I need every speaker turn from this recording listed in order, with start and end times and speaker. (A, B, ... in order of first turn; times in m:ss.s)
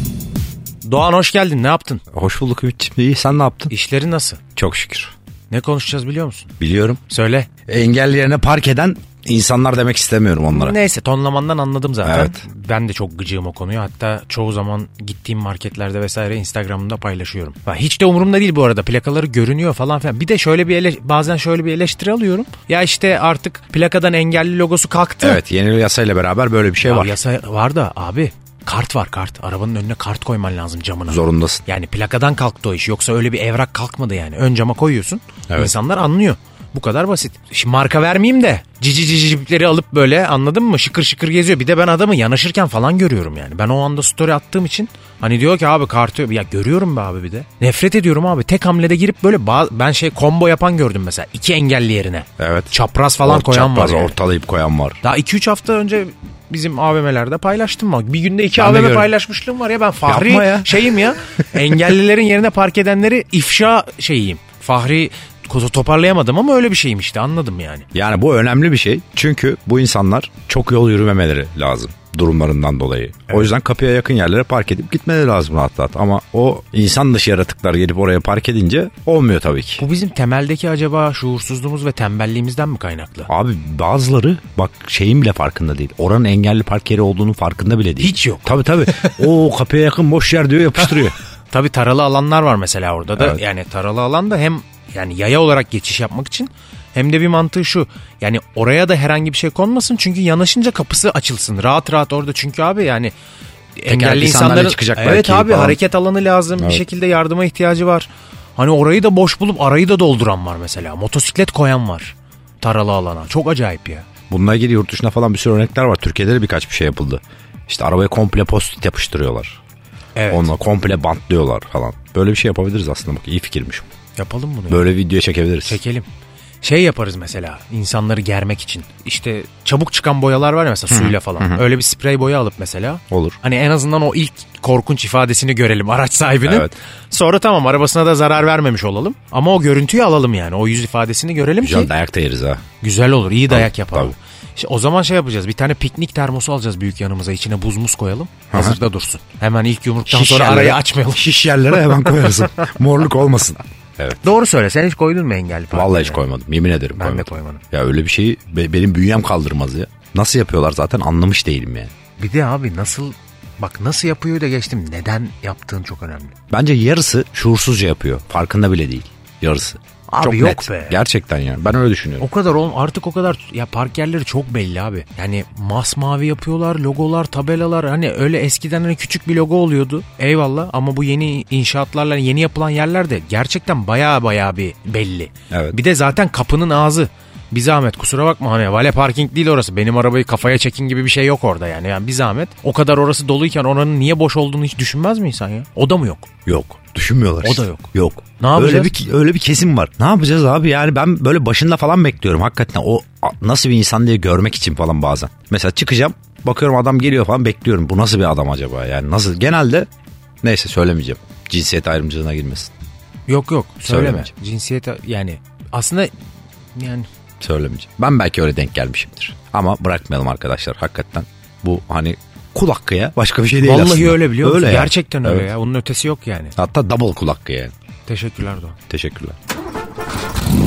0:00.8-0:02.0 A
0:02.1-0:03.7 B
0:03.7-0:04.4 A
0:04.6-0:05.1 B
0:05.5-0:06.5 A
0:06.6-0:07.0 B
0:07.1-0:07.5 A
0:07.7-0:10.8 B
0:10.5-0:25.4 A
0:12.0-0:12.4 B
0:25.2-0:27.2 B
0:26.8-0:54.2 A
0:31.1-0:31.6 B
0:52.4-0:55.0 B
0:55.0-1:07.9 A
0:58.6-0:59.1 B
1:00.0-1:01.0 B
1:07.9-1:19.8 B
1:19.8-1:23.3 A
1:23.3-1:31.2 B
1:28.0-1:28.5 A
1:31.5-1:43.1 A
1:33.2-1:33.4 B
1:43.8-1:54.1 A
1:43.9-1:45.8 B
1:46.6-1:46.8 B
1:54.3-1:59.6 B
2:00.2-2:00.5 A
2:00.3-2:03.9 B
2:04.2-2:04.9 A
2:04.7-2:05.8 B
2:05.6-2:06.1 A
2:06.6-2:21.9 A
2:10.9-2:11.6 B
2:13.1-2:13.4 B
2:16.4-2:16.7 B
2:21.6-2:22.6 B
2:22.8-2:32.7 A
2:23.5-2:24.1 B
2:28.5-2:28.8 B
2:30.1-2:34.2 B
2:34.2-2:36.2 A
2:35.7-2:41.9 B
2:37.0-2:37.6 A
2:42.2-2:46.3 A
2:46.5-2:52.3 B
2:50.1-2:51.0 A
2:52.2-3:16.3 A
3:05.5-3:05.8 B
3:16.5-3:29.9 B
3:17.4-3:18.9 A
3:30.4-3:32.7 B
3:33.3-3:36.1 A
3:33.8-3:34.3 B
3:36.8-3:37.1 A
3:37.4-3:45.5 B
3:43.6-3:46.6 A
3:46.6-3:47.7 B
3:48.1-3:48.8 A
3:48.9-3:49.4 B